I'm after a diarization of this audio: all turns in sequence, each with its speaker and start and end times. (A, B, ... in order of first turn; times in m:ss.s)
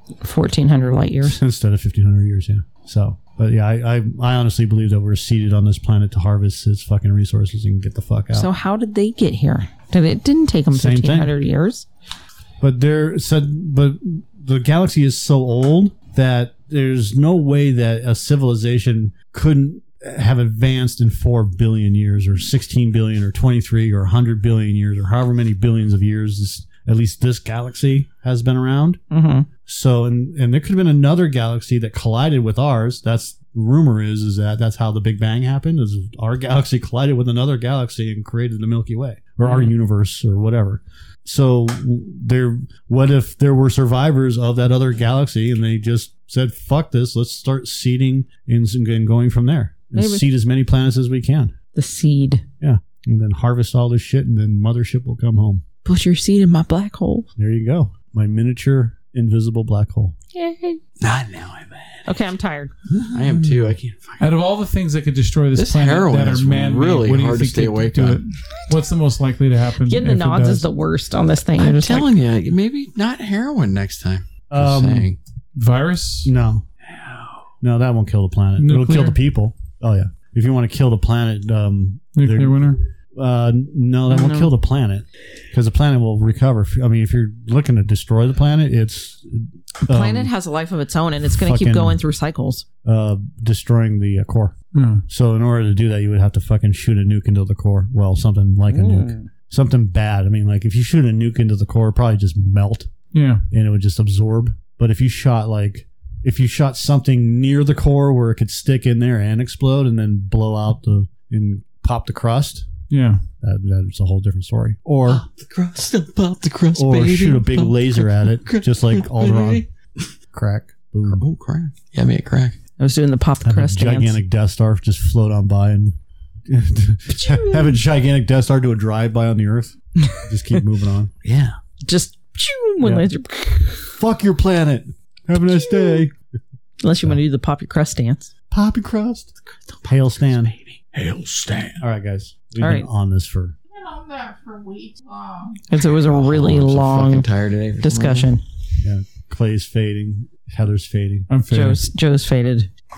0:00.2-0:01.4 A
0:01.2-0:08.5 B
0:08.3-0:11.9 A
0:10.7-0:11.3 B
0:12.6-0:29.0 B
0:29.1-0:29.5 A
0:29.6-0:51.5 B
0:39.4-0:39.7 A
0:50.0-0:50.2 A
0:51.7-0:52.4 A
0:52.6-0:55.6 B
0:55.8-0:57.3 A
0:57.4-1:00.2 B
1:00.3-1:00.8 A
1:01.0-1:02.1 C
1:02.1-1:02.7 A
1:02.9-1:03.2 B
1:03.1-1:04.3 C
1:04.2-1:10.7 D
1:05.6-1:08.2 C
1:09.9-1:12.1 A
1:11.6-1:15.2 C
1:14.5-1:15.1 B
1:15.6-1:16.3 D
1:16.2-1:16.6 B
1:16.9-1:17.4 C
1:17.6-1:30.3 B
1:18.6-1:19.2 D
1:22.2-1:22.8 D
1:24.1-1:24.5 A
1:29.8-1:32.6 A
1:31.2-1:32.0 B
1:32.8-1:34.6 B
1:34.7-1:35.0 D
1:35.1-1:42.9 B
1:38.7-1:39.2 A
1:43.1-1:43.4 D
1:43.5-1:52.7 B
1:52.9-1:53.2 D
1:53.4-1:55.2 B
1:55.1-1:59.7 C
1:56.7-1:59.6 B
2:00.3-2:01.2 B
2:01.0-2:02.6 C
2:02.8-2:04.2 A
2:03.4-2:11.1 B
2:07.1-2:07.8 A
2:11.2-2:11.6 C
2:11.8-2:13.9 A
2:12.8-2:13.1 B
2:13.9-2:16.1 B
2:16.8-2:18.3 A
2:18.5-2:19.3 B
2:19.6-2:21.8 C
2:19.8-2:20.6 B
2:21.8-2:23.6 B
2:22.6-2:22.9 A
2:23.7-2:25.6 E
2:25.7-2:27.3 A
2:25.9-2:28.3 C
2:27.8-2:28.4 A
2:28.8-2:31.3 B
2:31.3-2:31.8 D
2:31.5-2:32.7 A